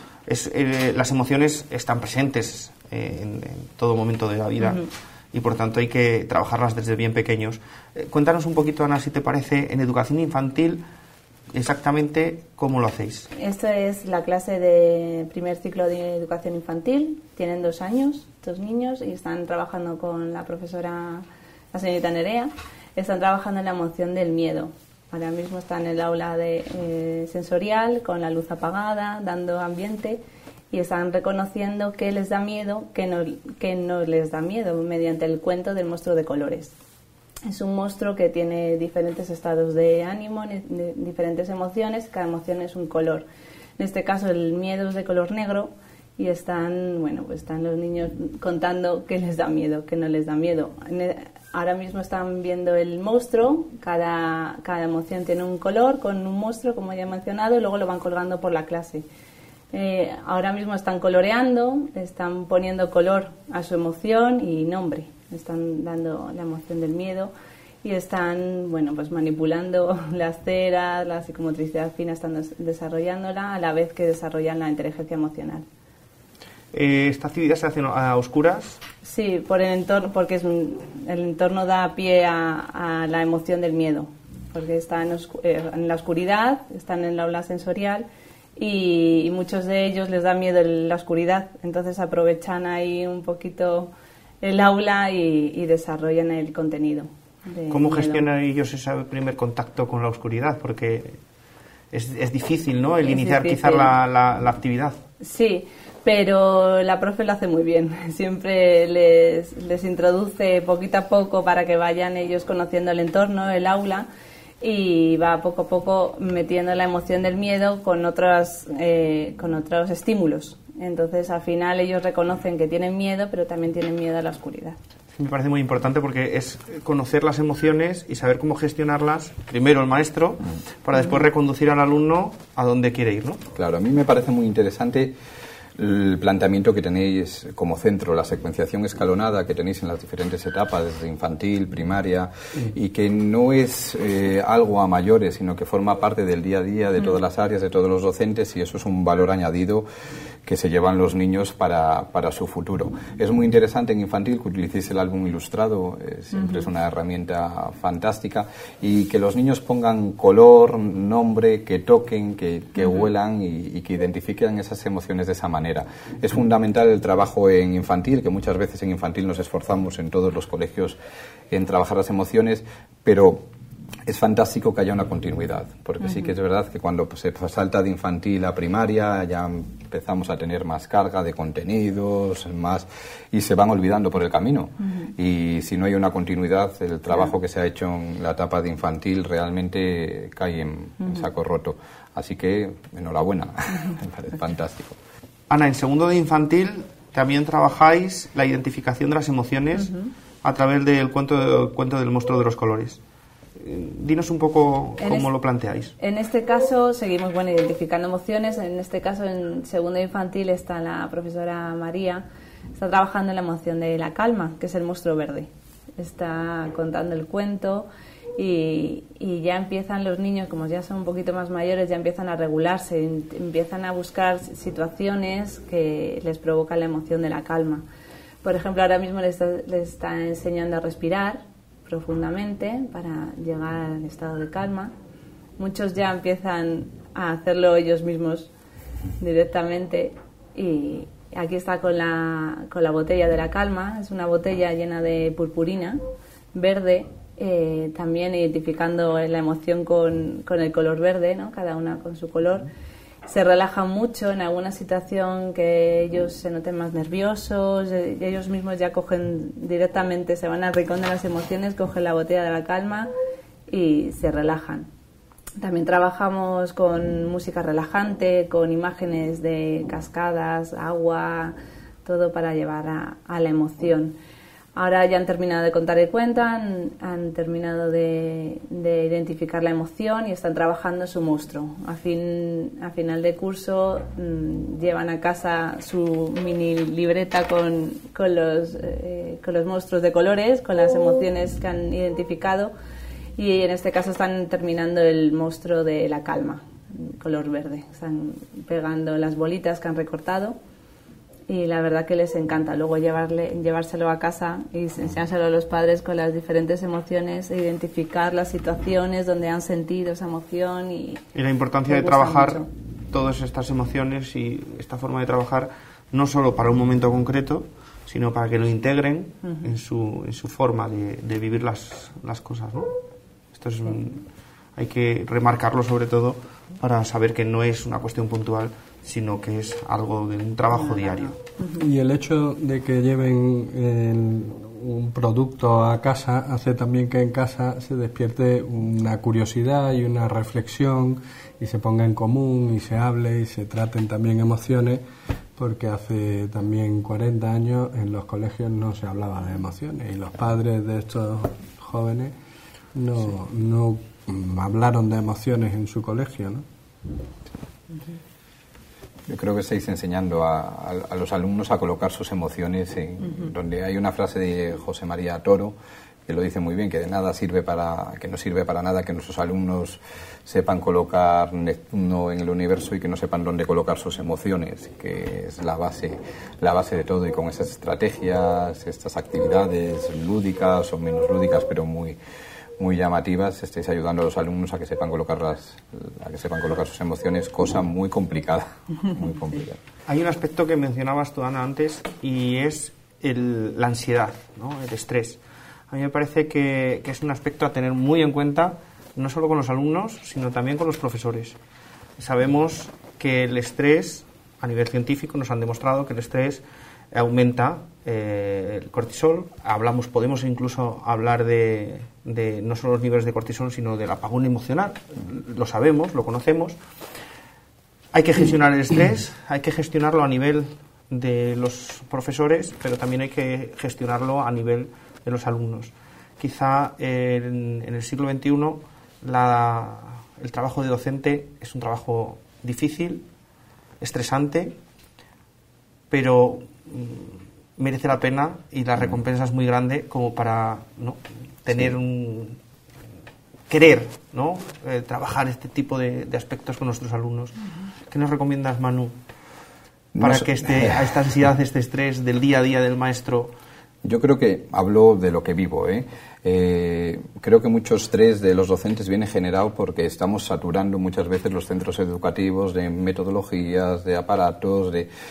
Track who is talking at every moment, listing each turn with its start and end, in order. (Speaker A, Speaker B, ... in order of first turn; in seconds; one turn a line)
Speaker A: 0.3-10.8
Speaker A: 11.5-13.3
Speaker B: 13.4-36.7
Speaker B: 37.5-43.2
Speaker B: 43.8-59.0
Speaker B: 59.7-67.3
Speaker B: 67.8-75.7
Speaker A: 76.7-78.8
Speaker B: 79.0-98.2
Speaker A: 97.7-101.2
Speaker A: 101.9-105.0
Speaker B: 103.0-103.9
Speaker B: 105.2-114.1
Speaker B: 114.6-124.8
Speaker A: 125.2-133.4
Speaker C: 133.6-135.2
Speaker C: 135.8-149.9
Speaker C: 150.4-171.0
Speaker C: 171.5-173.5
Speaker C: 174.1-195.0
Speaker A: 195.5-199.9
Speaker B: 199.8-200.1
Speaker A: 200.4-203.0
Speaker A: 203.6-205.9
Speaker B: 205.0-205.3
Speaker B: 206.0-212.2
Speaker B: 212.8-227.8
Speaker B: 228.4-234.9
Speaker B: 235.6-238.5
Speaker B: 239.2-246.0
Speaker B: 246.5-252.7
Speaker B: 253.3-263.1
Speaker B: 263.7-264.9
Speaker B: 265.6-274.2
Speaker B: 274.8-292.7
Speaker B: 293.4-300.6
Speaker B: 301.5-311.2
Speaker A: 311.4-322.9
Speaker B: 311.9-312.7
Speaker A: 323.5-324.2
Speaker A: 324.8-331.4
Speaker B: 331.0-331.8
Speaker D: 331.8-345.0
Speaker D: 345.6-352.3
Speaker D: 352.9-356.6
Speaker C: 359.3-365.8
Speaker C: 366.3-382.2
Speaker C: 382.8-389.8
Speaker A: 390.1-401.6
Speaker A: 402.2-416.8
Speaker A: 418.1-433.3
Speaker A: 434.0-434.8
Speaker A: 436.1-442.6
Speaker A: 443.7-447.6
Speaker A: 448.1-449.1
Speaker C: 450.1-451.1
Speaker A: 450.2-453.5
Speaker C: 454.0-465.1